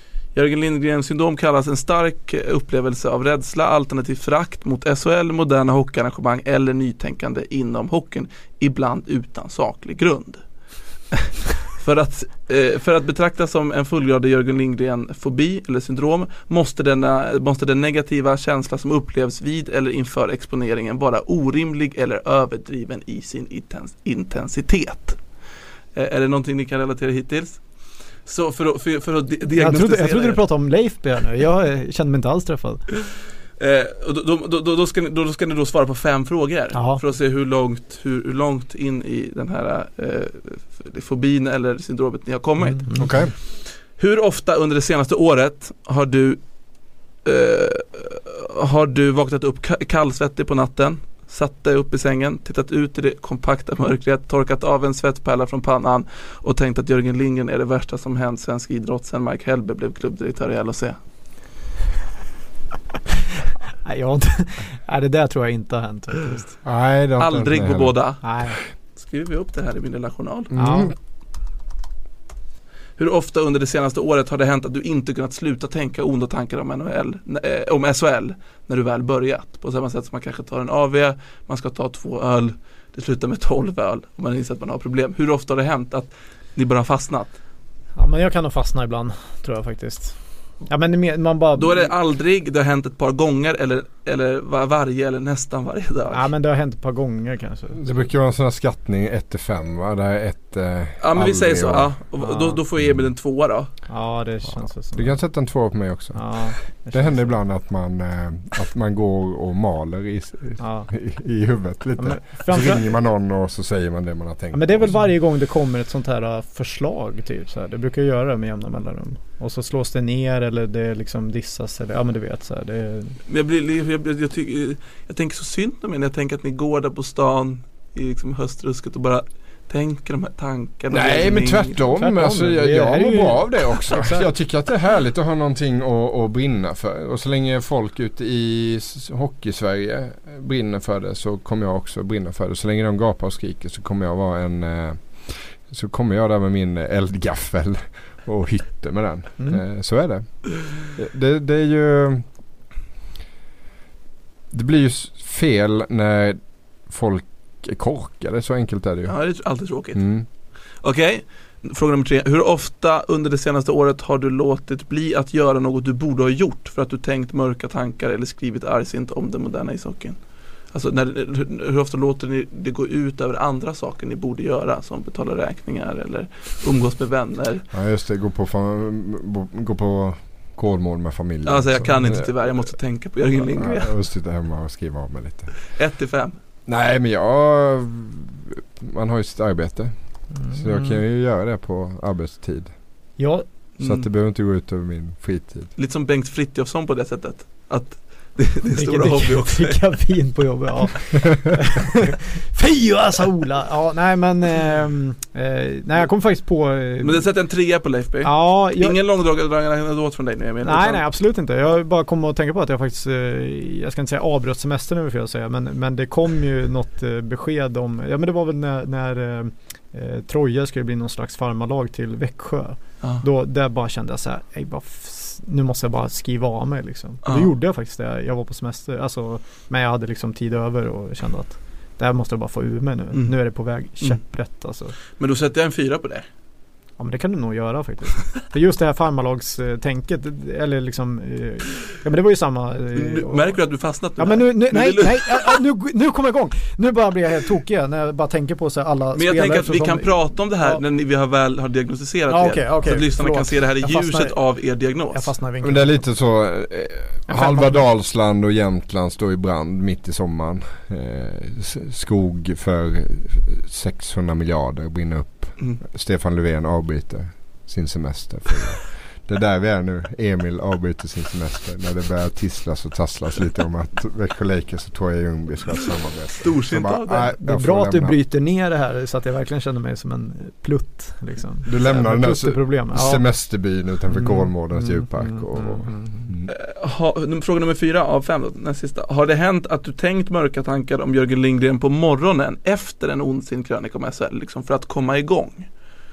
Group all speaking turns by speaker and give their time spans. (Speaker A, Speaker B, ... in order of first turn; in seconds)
Speaker A: 0.3-10.4, 11.7-25.2, 25.9-27.6, 28.2-30.4, 33.6-46.4, 47.2-61.0, 67.2-70.5, 73.0-87.4, 91.6-96.3, 101.0-103.7, 123.3-131.8, 159.1-160.2, 160.8-177.7, 181.4-183.9, 185.7-186.4, 193.8-194.1, 195.8-199.9, 207.0-211.0, 227.2-227.5, 235.2-236.3, 242.9-245.6, 249.1-255.3, 276.4-277.2, 286.5-295.7
Speaker B: 29.6-32.9, 36.7-37.0, 42.6-43.1, 63.8-66.5, 68.2-68.6, 70.6-70.9, 88.0-91.9, 96.1-97.9, 102.2-102.6, 103.9-105.2, 106.1-107.4, 110.6-110.9, 112.0-112.9, 114.5-123.2, 132.0-134.3, 190.3-191.0, 193.2-193.4, 198.7-207.3, 208.2-209.0, 210.6-234.9, 237.0-243.6, 244.2-250.8, 252.3-254.4, 255.1-256.0, 257.3-257.9, 277.3-283.3, 284.1-286.3
Speaker C: 43.0-43.3, 66.6-68.0, 70.5-70.9, 97.8-101.9, 102.8-103.1, 104.6-115.1, 130.9-152.3, 154.5-159.2, 159.9-160.3, 177.7-182.7, 183.3-185.6, 186.7-192.8, 193.8-195.7, 255.6-278.2, 281.6-286.5